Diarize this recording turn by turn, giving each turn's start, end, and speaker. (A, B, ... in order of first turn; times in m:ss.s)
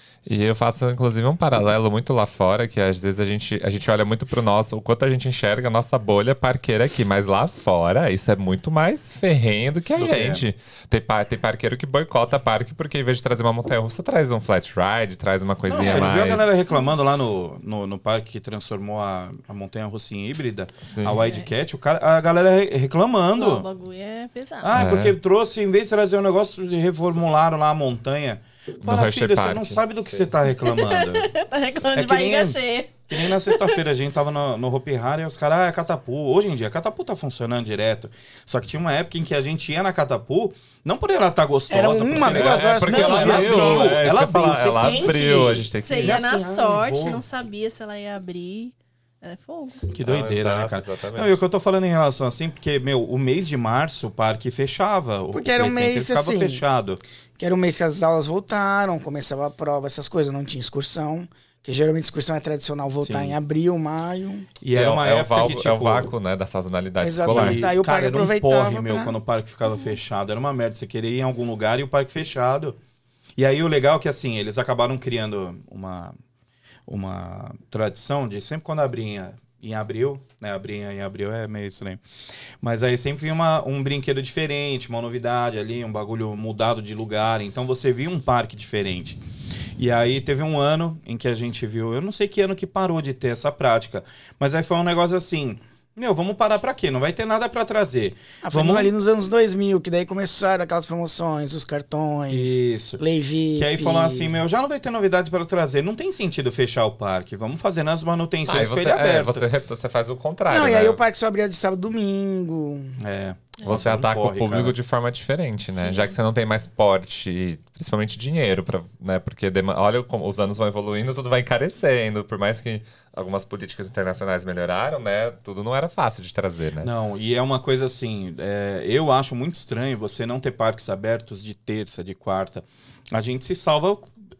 0:00.3-0:16.5 A
0:10.0-0:10.4 B
0:15.7-0:23.7 B
0:15.8-0:16.1 C
0:20.8-0:21.4 A
0:21.1-0:21.5 C
0:23.4-0:24.8 C
0:24.6-0:31.3 B
0:24.7-0:25.2 A
0:28.8-0:30.3 A
0:30.6-0:33.8 C
0:31.9-0:47.2 B
0:41.7-0:44.0 D
0:42.2-0:46.2 A
0:45.8-0:49.9 C
0:49.9-0:57.0 B
0:50.0-0:51.3 A
0:55.3-0:56.6 D
0:57.4-1:04.5 D
1:03.0-1:03.4 B
1:04.6-1:06.1 B
1:04.7-1:07.7 A
1:07.0-1:09.2 D
1:07.3-1:12.8 B
1:13.4-1:16.1 B
1:16.9-1:22.0 B
1:22.6-1:29.2 B
1:29.8-1:38.9 B
1:38.4-1:44.4 D
1:42.3-1:43.0 B
1:43.6-1:49.5 B
1:48.5-1:51.0 A
1:50.5-1:53.0 D
1:53.0-1:54.8 B
1:53.6-2:06.9 A
1:55.8-1:56.2 C
2:06.8-2:14.1 B